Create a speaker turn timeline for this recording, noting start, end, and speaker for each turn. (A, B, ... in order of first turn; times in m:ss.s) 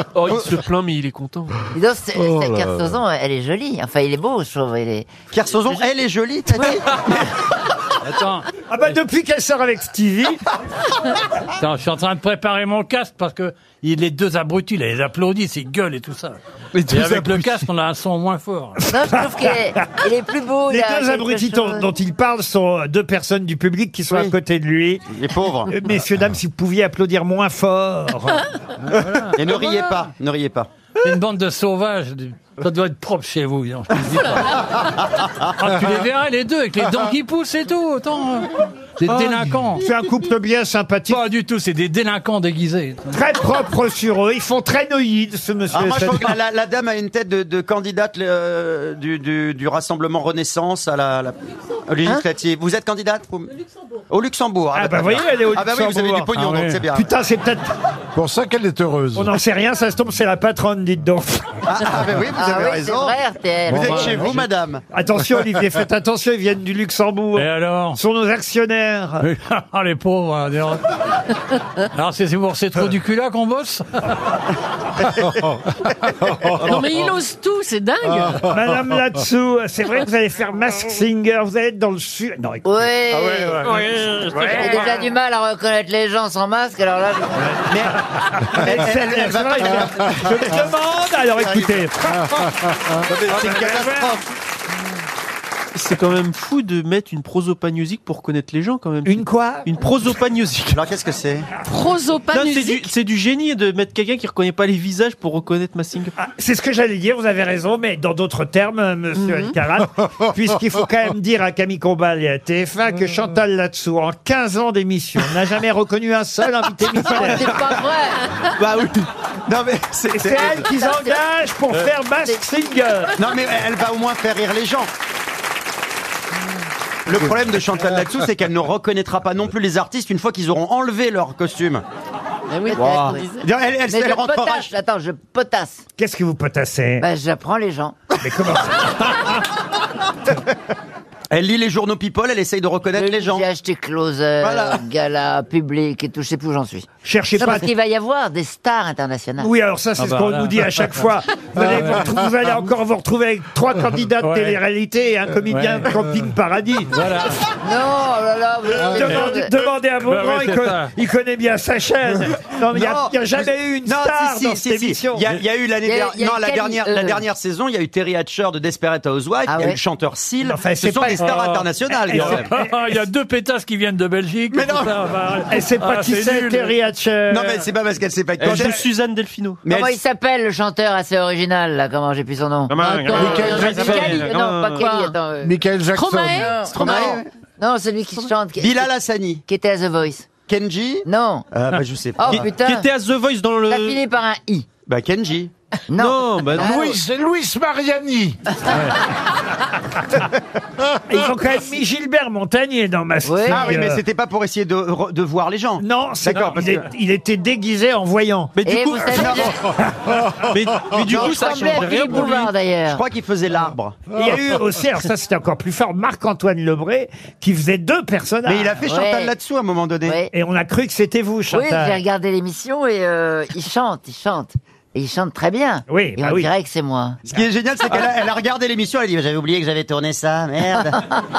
0:00.1-0:01.7 A
0:01.7-0:05.1 B
0:02.2-0:03.0 C
0:05.3-0:06.8 D
0:08.0-0:08.5 E
0:08.7-0:10.4 F
0:11.6-0:18.8 E
0:16.7-0:17.5 A
0:18.8-0:20.0 F
0:18.9-0:21.9 B
0:20.7-0:25.0 F
0:24.1-0:24.3 D
0:25.1-0:25.7 D
0:25.7-0:28.4 F
0:28.9-0:29.3 E
0:29.3-0:30.7 D
0:31.0-0:39.8 E
0:39.1-0:39.4 A
0:39.8-0:41.2 F
0:41.1-0:43.2 E
0:43.1-0:46.3 F
0:45.7-0:53.5 D
0:54.1-0:57.1 D
0:54.7-0:56.3 F
0:56.4-0:56.8 E
0:56.9-0:57.7 F
0:58.1-0:59.3 C
0:59.1-1:01.6 F
1:01.6-1:03.2 D
1:02.3-1:04.4 B
1:03.7-1:04.4 C
1:03.7-1:04.8 D
1:04.9-1:09.3 F
1:07.3-1:08.0 E
1:09.2-1:14.0 E
1:16.4-1:16.8 C
1:16.5-1:18.5 G
1:18.4-1:22.8 F
1:22.6-1:23.7 B
1:23.3-1:24.9 E
1:24.4-1:27.7 B
1:27.7-1:28.0 D
1:28.5-1:30.7 D
1:28.5-1:34.2 F
1:31.4-1:31.8 D
1:33.1-1:34.2 D
1:33.1-1:33.7 A
1:35.7-1:40.8 A
1:39.0-1:39.7 F
1:40.7-1:41.5 D
1:41.6-1:42.9 G
1:42.2-1:46.1 A
1:46.2-1:57.6 F
1:57.1-1:58.4 B
1:58.6-2:00.6 D
2:00.1-2:03.1 F
2:00.7-2:01.2 B
2:03.2-2:04.9 D
2:07.0-2:11.8 D
2:12.5-2:13.5 G
2:12.7-2:13.3 B
2:12.8-2:14.7 D
2:13.8-2:15.8 B
2:16.0-2:17.1 F
2:17.0-2:18.0 B
2:18.2-2:19.4 F
2:21.3-2:23.5 D
2:22.9-2:29.5 B
2:24.4-2:24.8 D
2:27.0-2:27.7 F
2:29.4-2:36.9 F
2:30.0-2:30.9 E
2:31.6-2:32.0 E
2:34.2-2:34.6 E
2:35.5-2:35.9 E
2:36.9-2:37.4 E
2:37.6-2:39.5 B
2:38.8-2:45.3 F
2:40.0-2:40.9 E
2:42.7-2:52.5 D
2:45.8-2:47.2 B
2:49.5-2:49.8 B
2:50.4-2:51.3 F
2:51.2-2:56.7 E
2:52.1-2:52.9 F
2:54.5-2:55.0 D
2:55.5-2:57.7 F
2:57.3-2:58.8 D
2:58.4-2:59.7 A
2:58.5-2:58.8 F
2:59.6-2:59.9 D
2:59.7-3:05.6 B
3:02.7-3:05.2 A
3:03.1-3:04.3 C
3:05.4-3:06.5 C
3:05.9-3:07.2 G
3:06.3-3:08.9 B
3:06.7-3:07.3 D
3:08.6-3:09.4 D
3:09.5-3:10.3 B
3:10.4-3:12.5 D
3:11.0-3:11.5 B
3:12.2-3:12.9 B
3:12.2-3:14.0 A
3:13.6-3:14.7 B
3:14.8-3:15.5 D
3:15.9-3:16.9 B
3:16.0-3:17.0 A
3:16.5-3:18.4 C
3:18.7-3:19.0 E
3:21.1-3:24.0 F
3:23.2-3:23.7 B
3:23.5-3:26.8 D
3:25.8-3:28.6 F
3:28.6-3:29.7 A
3:28.6-3:29.5 B
3:29.1-3:29.5 D
3:30.3-3:32.5 A
3:31.0-3:32.2 D
3:31.0-3:33.0 B
3:32.8-3:34.0 D
3:34.1-3:38.8 F
3:38.4-3:40.2 D
3:38.8-3:39.4 B
3:40.0-3:40.3 B
3:40.3-3:42.0 F
3:41.5-3:47.2 B
3:45.9-3:46.5 F
3:47.3-3:51.2 D